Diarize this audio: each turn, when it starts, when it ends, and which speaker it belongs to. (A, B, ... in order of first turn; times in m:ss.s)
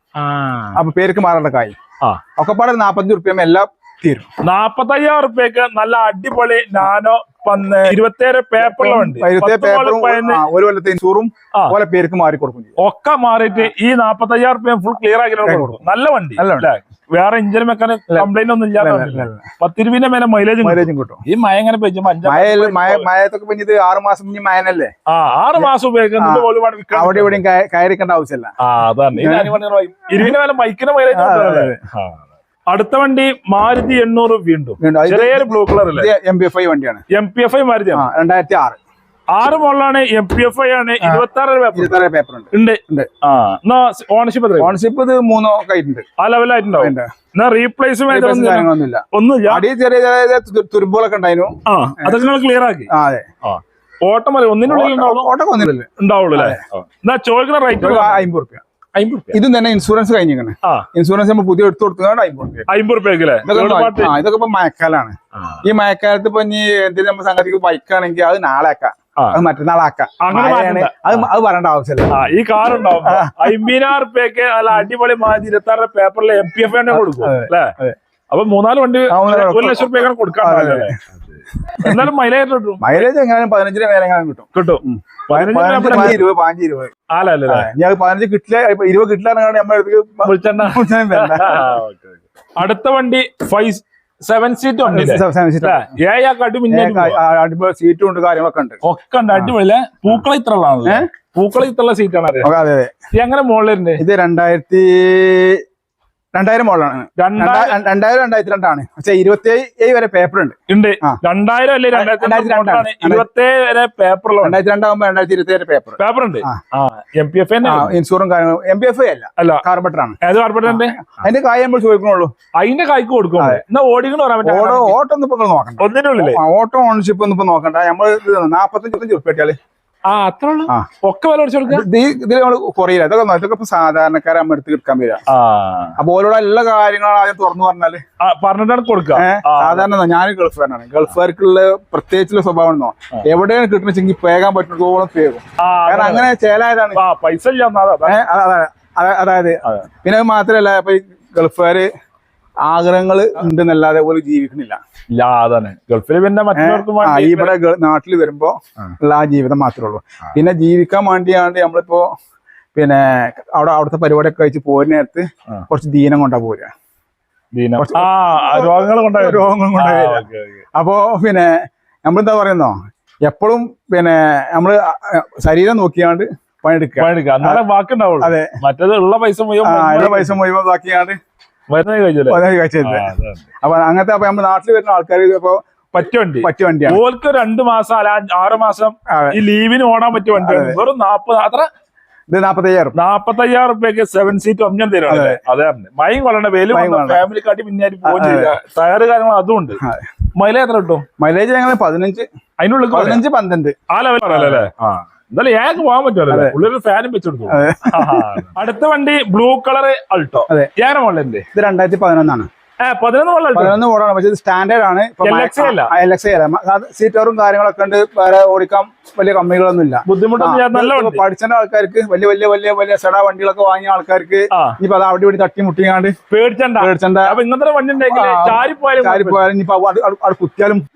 0:00.2-0:00.8 A
0:00.8-0:01.8 B
0:02.4-0:04.3 B
0:04.4-0:10.4 A
0:08.6-0:12.8 B
0:12.8-0:23.1 A
0:15.4-0:15.8 B
0:16.4-0:16.7 B
0:18.1-0:19.4 B
0:20.6-0:21.2 B
0:22.2-0:24.9 B
0:25.1-0:27.4 A
0:25.6-0:28.5 B
0:28.6-0:36.1 A
0:29.2-0:29.6 B
0:31.1-0:31.8 B
0:34.8-0:37.0 B
0:37.1-0:38.0 A
0:37.9-0:38.8 B
0:39.3-0:41.9 A
0:41.0-0:43.1 B
0:42.5-0:44.8 A
0:44.6-0:46.0 B
0:46.2-0:49.7 A
0:46.8-0:47.1 B
0:48.1-0:52.2 B
0:51.7-0:52.9 A
0:52.9-0:53.3 B
0:53.4-0:58.3 A
0:54.7-0:56.6 B
0:57.8-0:58.6 B
0:59.0-0:59.4 A
0:59.3-1:02.7 B
1:02.7-1:04.2 A
1:03.4-1:12.2 B
1:05.4-1:05.6 A
1:10.2-1:11.3 A
1:12.1-1:17.7 A
1:13.0-1:13.5 B
1:16.9-1:18.0 B
1:18.3-1:23.1 A
1:19.1-1:21.0 B
1:22.8-1:26.9 B
1:24.6-1:26.2 A
1:27.1-1:27.7 A
1:27.5-1:31.8 B
1:30.2-1:37.2 A
1:34.8-1:35.9 B
1:36.7-1:38.8 B
1:38.8-1:42.5 A
1:42.4-1:42.9 B
1:43.1-1:44.0 A
1:44.0-1:45.6 B
1:46.3-1:51.2 B
1:47.2-1:47.7 A
1:50.7-1:54.6 A
1:51.9-1:53.2 B
1:54.4-1:56.6 B
1:56.0-1:57.9 A
1:57.6-2:02.3 B
1:59.4-1:59.6 A
2:00.2-2:01.0 A
2:02.6-2:05.0 A
2:04.4-2:09.6 B
2:05.8-2:06.4 A
2:10.1-2:11.8 A
2:11.7-2:15.2 B
2:15.3-2:16.0 A
2:16.0-2:18.0 B
2:18.2-2:19.9 A
2:19.2-2:27.0 B
2:25.6-2:26.3 A
2:27.0-2:28.2 A
2:28.1-2:31.9 B
2:32.7-2:34.8 B
2:35.1-2:37.5 A
2:36.5-2:42.1 B
2:42.8-2:46.7 B
2:47.5-2:50.6 A
2:47.8-2:51.5 B
2:52.1-2:57.6 B
2:57.0-3:00.4 A
2:58.2-2:58.5 B
2:59.6-3:01.2 B
3:01.7-3:03.5 A
3:02.3-3:03.1 B
3:03.6-3:05.6 B
3:05.9-3:11.7 A
3:06.4-3:07.0 B
3:09.1-3:09.4 B
3:10.3-3:10.8 B
3:12.3-3:13.0 B
3:13.0-3:19.8 A
3:15.1-3:15.4 B
3:16.7-3:17.2 B
3:18.0-3:18.5 B
3:19.8-3:20.1 B
3:20.4-3:21.0 A
3:21.2-3:22.2 B
3:22.6-3:23.2 A
3:22.9-3:23.8 B
3:23.9-3:31.5 A
3:24.3-3:24.7 B
3:26.3-3:26.6 B
3:27.5-3:28.4 B
3:31.6-3:32.5 B
3:32.8-3:33.8 A
3:33.6-3:46.2 B
3:35.2-3:35.9 A
3:40.1-3:41.2 A
3:44.5-3:44.8 A
3:46.3-3:49.5 A
3:46.8-3:47.4 B
3:48.0-3:50.8 B